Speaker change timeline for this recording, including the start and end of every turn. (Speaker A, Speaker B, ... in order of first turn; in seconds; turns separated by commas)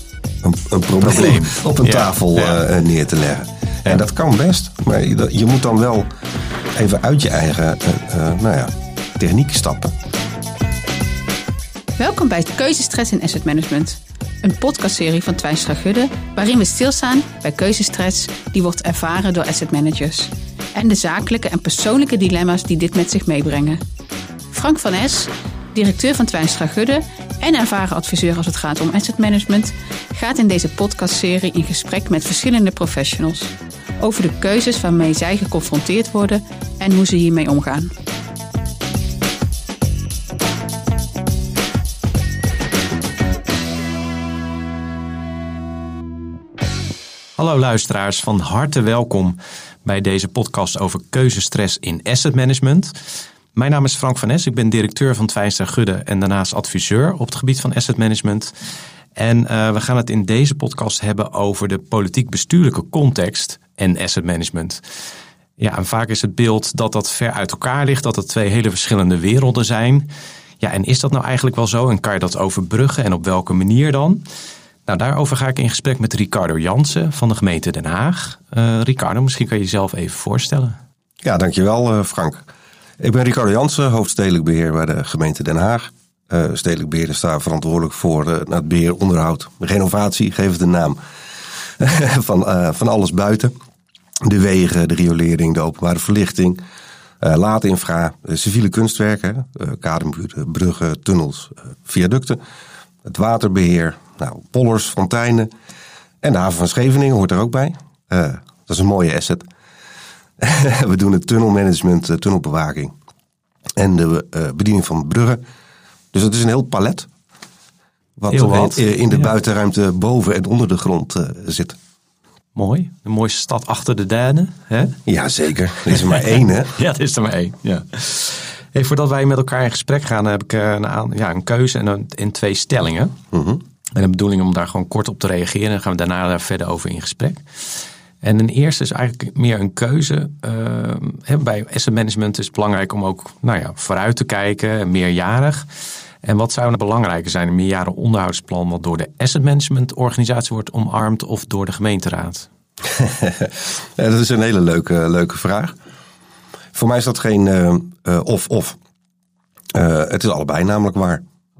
Speaker A: 0.4-6.1, Speaker B: 1.0-2.6, Speaker A: 6.7-9.9, Speaker C: 12.0-23.8, Speaker C: 24.5-37.9, Speaker B: 47.4-64.8, Speaker B: 65.6-70.1, Speaker B: 70.6-74.2, Speaker B: 74.8-80.8, Speaker A: 81.2-82.5, Speaker A: 83.0-91.0, Speaker A: 91.8-93.5, Speaker A: 94.2-96.6, Speaker A: 97.2-102.4, Speaker A: 103.0-105.5, Speaker A: 106.2-109.5, Speaker A: 110.4-112.9, Speaker A: 113.8-115.4, Speaker A: 116.1-117.1, Speaker A: 118.2-121.8, Speaker B: 118.3-119.3, Speaker B: 122.5-125.0, Speaker A: 125.0-126.7, Speaker B: 125.9-133.1, Speaker A: 133.3-133.6, Speaker B: 133.9-145.7, Speaker B: 146.2-152.5, Speaker A: 152.8-155.8, Speaker A: 156.7-158.8, Speaker A: 159.7-161.2